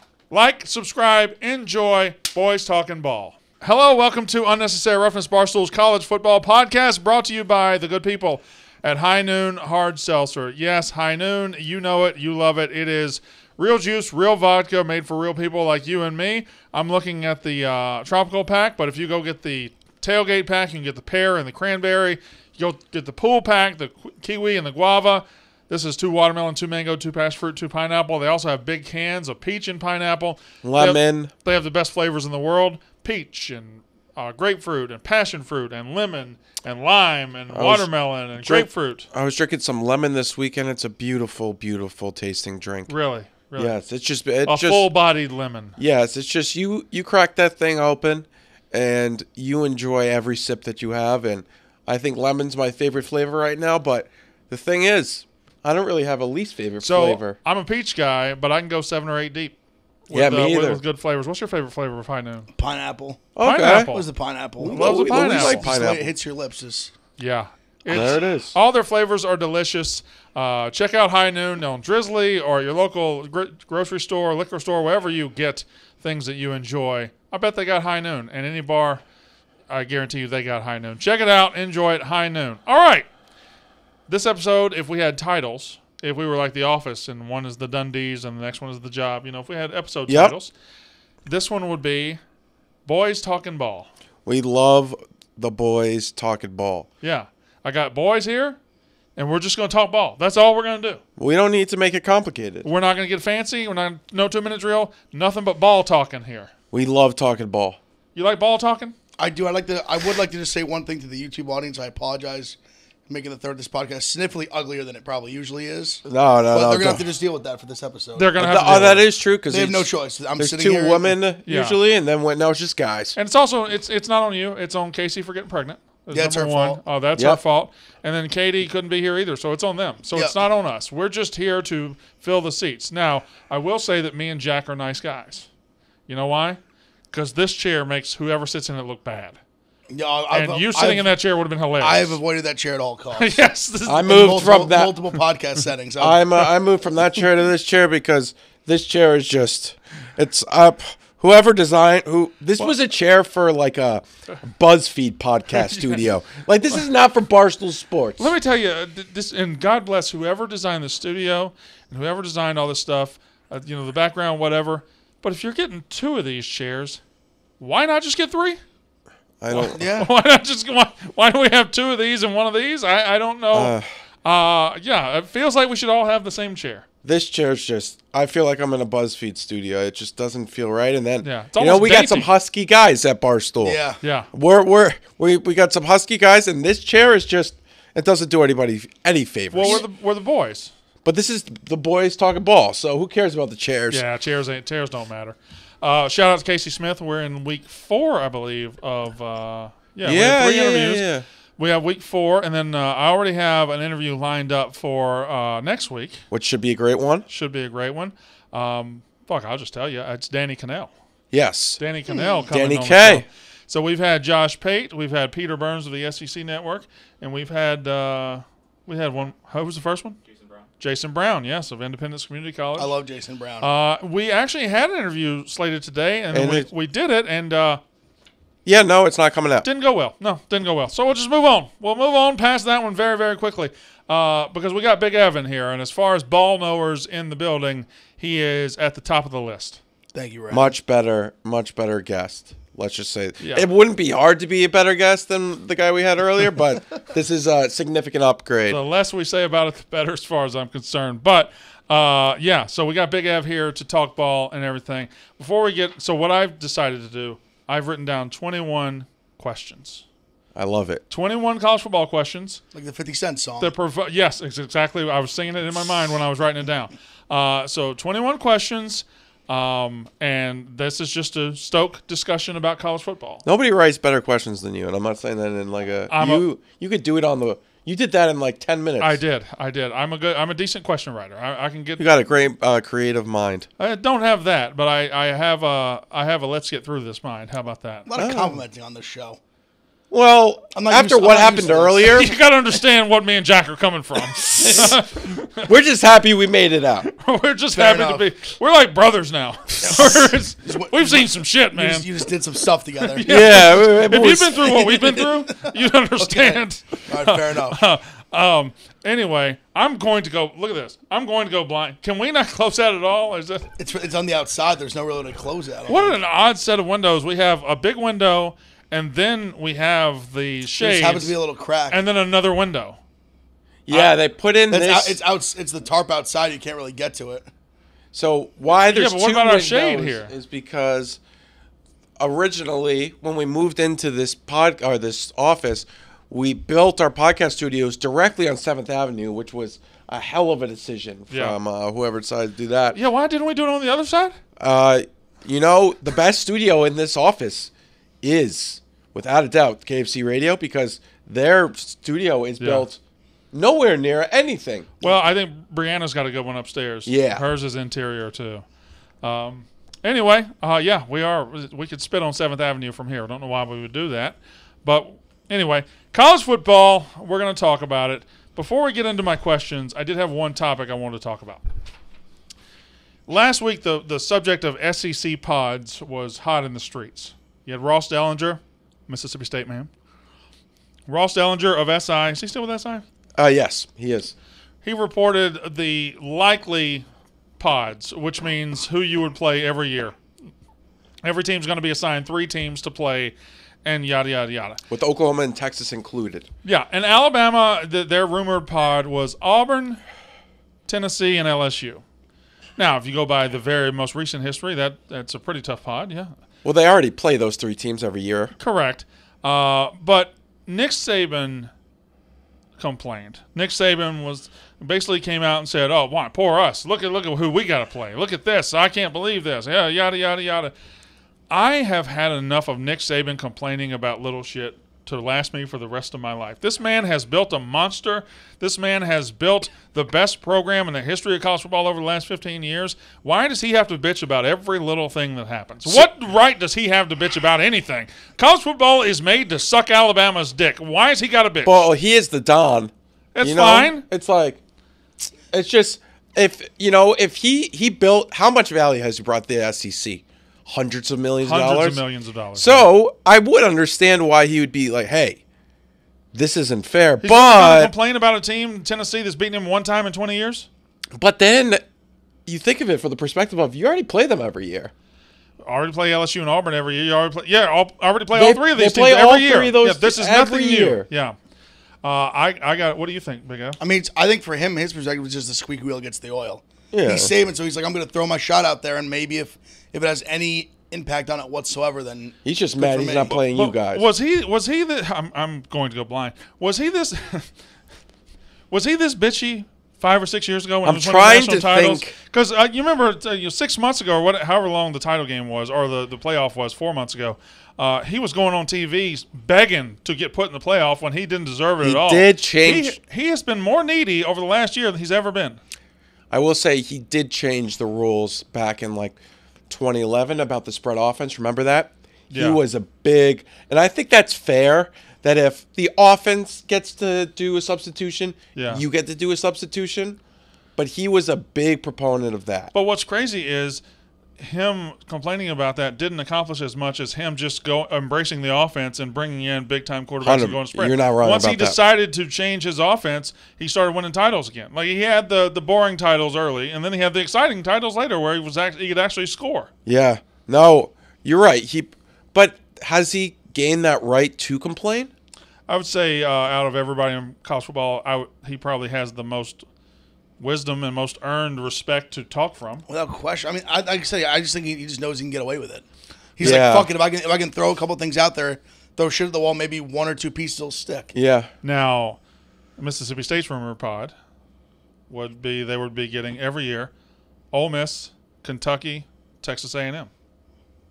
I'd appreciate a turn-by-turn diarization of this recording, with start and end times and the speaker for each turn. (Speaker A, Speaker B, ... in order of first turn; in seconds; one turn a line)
Speaker A: 0.3-39.1
Speaker B: 30.6-31.3
Speaker B: 37.5-42.9
Speaker A: 42.9-43.7
Speaker B: 43.5-44.9
Speaker A: 44.4-45.8
Speaker B: 45.8-57.4
Speaker A: 56.8-59.5
Speaker A: 60.1-62.5
Speaker B: 60.1-60.8
Speaker C: 62.5-66.9
Speaker B: 63.4-63.9
Speaker A: 63.4-64.0
Speaker B: 64.6-66.1
Speaker A: 64.7-65.7
Speaker A: 67.2-79.0
Speaker B: 67.9-68.5
Speaker A: 79.7-83.1
Speaker A: 84.1-90.5
Speaker B: 90.1-90.3
Speaker A: 91.2-92.2
Speaker A: 92.8-93.9
Speaker B: 94.2-96.9
Speaker A: 97.0-98.6
Speaker A: 99.2-101.0
Speaker B: 101.2-102.7
Speaker A: 102.6-106.5
Speaker B: 106.7-107.8
Speaker A: 108.1-108.9
Speaker C: 109.2-112.6
Speaker C: 113.1-118.9
Speaker B: 116.0-117.0
Speaker A: 118.2-119.0
Speaker B: 118.4-123.2
Speaker C: 119.5-121.1
Speaker A: 121.4-121.8
Speaker A: 123.2-135.5
Speaker C: 126.1-126.8
Speaker A: 136.1-136.6
Speaker A: 137.1-139.4
Speaker C: 139.9-141.1
Speaker A: 140.3-142.2
Speaker C: 141.8-143.3
Speaker A: 143.1-144.3
Speaker B: 143.8-145.0
Speaker C: 144.0-146.4
Speaker B: 146.0-158.3
Speaker A: 155.6-156.0
Speaker A: 158.2-167.0
Speaker A: 167.6-168.6
Speaker B: 169.4-169.8
Speaker A: 169.5-176.8
Speaker C: 169.7-170.1
Speaker B: 173.5-173.9
Speaker B: 177.0-183.8
Speaker A: 181.2-182.3
Speaker C: 183.6-184.0
Speaker A: 184.0-184.3
Speaker B: 184.3-189.8
Speaker A: 189.5-190.7
Speaker B: 191.0-194.0
Speaker A: 193.9-201.1
Speaker B: 200.0-201.2
Speaker A: 201.6-206.2
Speaker B: 206.3-207.2
Speaker A: 207.3-210.9
Speaker B: 211.3-211.8
Speaker A: 211.8-220.2
Speaker B: 212.5-213.2
Speaker A: 220.8-222.9
Speaker C: 222.8-223.7
Speaker A: 223.6-227.8
Speaker B: 226.3-226.7
Speaker B: 228.6-229.6
Speaker A: 229.6-239.8
Speaker C: 240.1-240.7
Speaker B: 240.5-248.8
Speaker A: 243.4-243.7
Speaker A: 248.7-260.0
Speaker B: 260.5-261.0
Speaker A: 261.1-262.6
Speaker C: 262.7-263.7
Speaker A: 263.6-273.4
Speaker B: 273.4-279.2
Speaker A: 276.1-276.4
Speaker A: 279.0-282.1
Speaker B: 282.0-283.7
Speaker A: 283.8-288.1
Speaker C: 288.1-289.4
Speaker B: 288.1-288.6
Speaker B: 290.1-292.3
Speaker C: 290.7-292.2
Speaker A: 292.1-295.7
Speaker B: 294.6-294.9
Speaker B: 295.6-297.1
Speaker A: 297.1-302.1
Speaker C: 297.7-298.2
Speaker C: 299.8-303.2
Speaker A: 303.0-313.7
Speaker B: 303.2-304.6
Speaker C: 304.6-307.8
Speaker C: 313.8-316.2
Speaker A: 315.9-321.3
Speaker C: 320.7-322.0
Speaker A: 321.9-323.0
Speaker B: 323.9-325.2
Speaker A: 323.9-324.1
Speaker C: 324.7-327.5
Speaker B: 328.1-331.2
Speaker A: 328.9-330.3
Speaker B: 332.2-343.0
Speaker A: 341.3-341.6
Speaker A: 342.9-344.4
Speaker B: 344.6-347.7
Speaker B: 348.2-353.0
Speaker A: 352.6-352.9
Speaker B: 353.5-355.0
Speaker A: 355.0-358.6
Speaker B: 357.1-357.4
Speaker A: 359.2-371.6
Speaker A: 373.3-379.9
Speaker A: 381.1-383.0
Speaker B: 383.4-384.3
Speaker A: 384.8-387.1
Speaker A: 387.6-390.2
Speaker A: 391.2-394.8
Speaker B: 394.9-396.5
Speaker A: 396.6-400.0
Speaker A: 400.9-402.0
Speaker A: 402.8-406.3
Speaker B: 406.6-408.5
Speaker A: 408.6-411.7
Speaker A: 412.8-420.7
Speaker A: 421.5-441.9
Speaker B: 441.6-444.6
Speaker A: 443.3-444.1
Speaker B: 445.5-452.0
Speaker A: 451.4-452.9
Speaker B: 452.6-455.4
Speaker B: 456.3-457.9
Speaker A: 457.2-460.7
Speaker B: 461.1-461.8
Speaker B: 462.4-464.9
Speaker A: 465.6-471.3
Speaker B: 468.3-471.1
Speaker A: 472.0-473.8
Speaker C: 473.8-483.4
Speaker B: 476.9-477.3
Speaker B: 482.4-484.1
Speaker A: 483.4-487.5
Speaker A: 488.7-505.6
Speaker B: 490.8-492.1
Speaker B: 501.8-503.0
Speaker B: 506.3-509.2
Speaker B: 509.7-520.2
Speaker A: 512.3-512.6
Speaker A: 518.5-518.8
Speaker B: 520.8-522.7
Speaker A: 522.7-523.8
Speaker A: 524.4-539.7
Speaker B: 530.2-531.8
Speaker B: 539.9-545.1
Speaker A: 545.7-549.6
Speaker A: 550.4-552.8
Speaker C: 552.9-555.8
Speaker C: 556.4-561.1
Speaker B: 556.4-556.9
Speaker B: 561.1-561.5
Speaker A: 561.6-562.2
Speaker A: 562.8-564.1
Speaker A: 565.1-566.9
Speaker A: 567.5-570.1